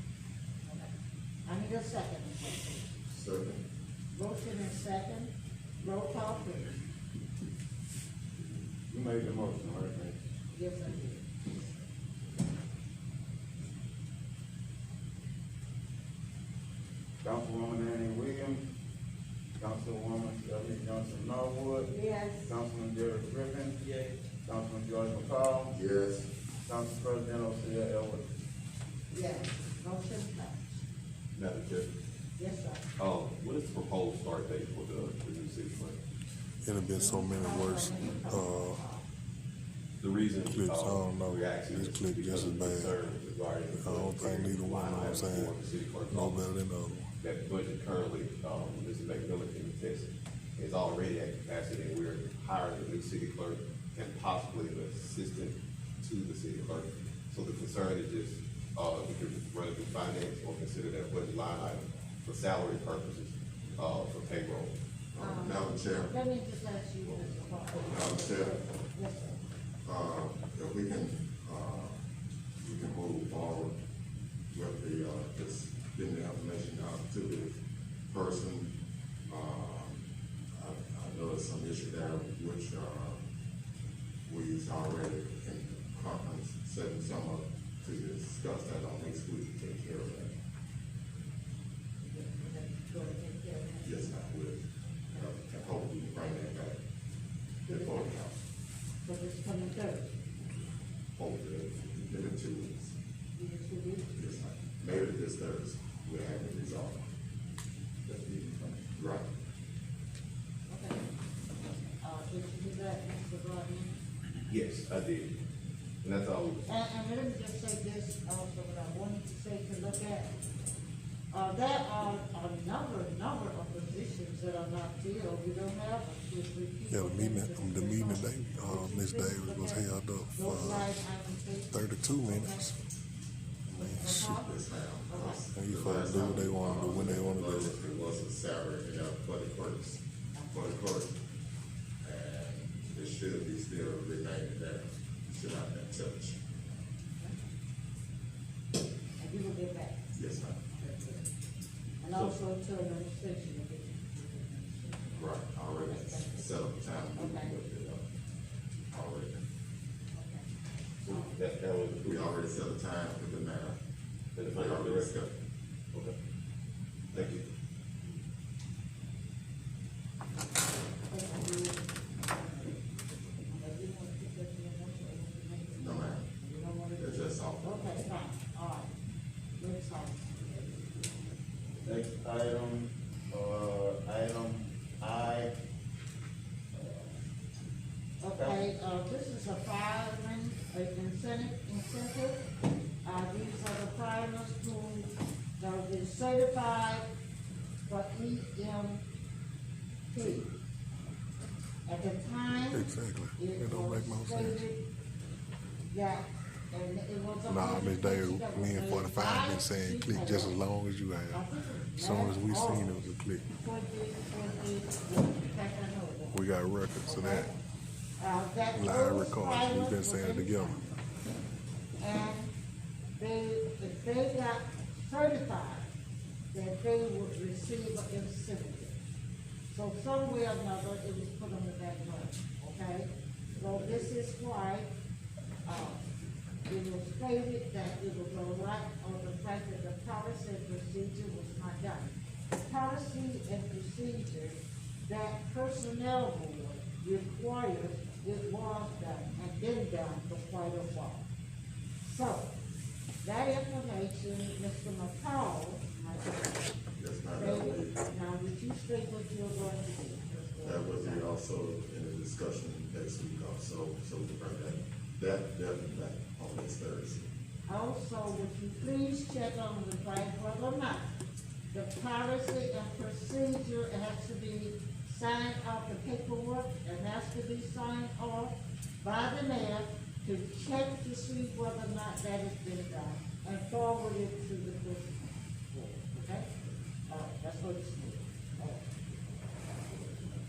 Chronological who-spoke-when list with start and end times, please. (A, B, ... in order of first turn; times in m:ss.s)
0:00.6-0:03.0 A
0:03.1-0:03.6 B
0:04.1-0:06.8 A
0:08.9-0:10.2 C
0:10.5-0:11.3 A
0:17.2-0:18.6 C
0:19.6-0:21.9 C
0:21.9-0:22.6 A
0:22.4-0:25.7 C
0:25.7-0:26.3 B
0:26.6-0:28.2 C
0:29.1-0:30.8 A
0:31.3-0:31.9 D
0:32.4-0:32.8 A
0:33.0-0:36.0 D
0:36.6-0:38.8 E
0:36.8-0:39.1 A
0:40.0-0:46.5 D
0:40.4-0:43.0 E
0:43.7-0:45.5 E
0:46.1-0:47.1 E
0:47.2-1:04.7 D
1:05.1-1:06.1 B
1:05.2-1:09.4 A
1:07.8-1:08.6 B
1:09.8-1:12.0 B
1:12.6-1:13.8 B
1:14.5-1:17.6 B
1:18.1-1:18.7 B
1:19.3-1:23.2 B
1:24.2-1:30.3 B
1:32.0-1:34.1 A
1:33.8-1:36.8 B
1:37.6-1:38.2 A
1:37.7-1:38.4 B
1:39.0-1:40.2 A
1:41.2-1:42.9 B
1:43.3-1:44.1 A
1:44.1-1:47.0 B
1:48.0-1:48.8 C
1:48.9-1:49.3 B
1:50.7-1:51.0 A
1:52.0-1:54.0 A
1:54.5-1:55.3 D
1:56.0-1:56.6 D
1:56.7-2:00.3 A
2:01.3-2:12.7 A
2:06.9-2:10.9 E
2:11.7-2:12.8 E
2:13.7-2:14.5 E
2:13.8-2:14.5 A
2:14.4-2:21.1 B
2:15.1-2:15.4 A
2:15.5-2:17.7 E
2:20.3-2:20.6 A
2:22.0-2:26.4 B
2:29.2-2:30.0 A
2:30.1-2:30.6 B
2:30.7-2:31.2 A
2:32.0-2:36.5 A
2:32.1-2:32.4 D
2:35.2-2:38.1 B
2:37.1-2:37.5 A
2:38.9-2:39.4 B
2:40.1-2:40.4 A
2:41.0-2:42.3 D
2:41.0-2:41.3 A
2:42.0-2:43.8 B
2:44.3-2:45.2 D
2:44.5-2:45.3 B
2:47.1-2:47.4 D
2:51.0-2:52.9 A
2:53.5-2:58.9 A
2:55.7-2:56.3 B
2:57.0-2:57.9 B
2:59.6-3:00.7 A
3:01.8-3:05.5 C
3:06.7-3:07.2 C
3:08.2-3:12.4 A
3:08.3-3:08.6 C
3:13.0-3:17.1 A
3:17.9-3:19.0 A
3:20.1-3:20.5 A
3:21.8-3:24.8 A
3:22.7-3:24.6 E
3:25.9-3:30.6 A
3:27.5-3:33.5 E
3:31.3-3:32.9 A
3:33.6-3:36.4 A
3:36.3-3:37.5 E
3:37.0-3:37.5 A
3:38.2-3:40.9 A
3:38.8-3:40.8 E
3:42.0-3:42.5 A
3:43.2-3:45.9 A
3:46.5-3:49.0 A
3:49.7-3:54.9 A
3:53.6-3:54.1 B
3:55.6-3:56.0 A
3:56.7-4:11.2 A
4:12.0-4:12.5 A
4:13.2-4:16.8 A
4:17.0-4:18.0 B
4:17.3-4:21.2 A
4:20.6-4:27.3 B
4:27.7-4:31.1 A
4:31.7-4:46.5 A
4:47.1-4:48.9 A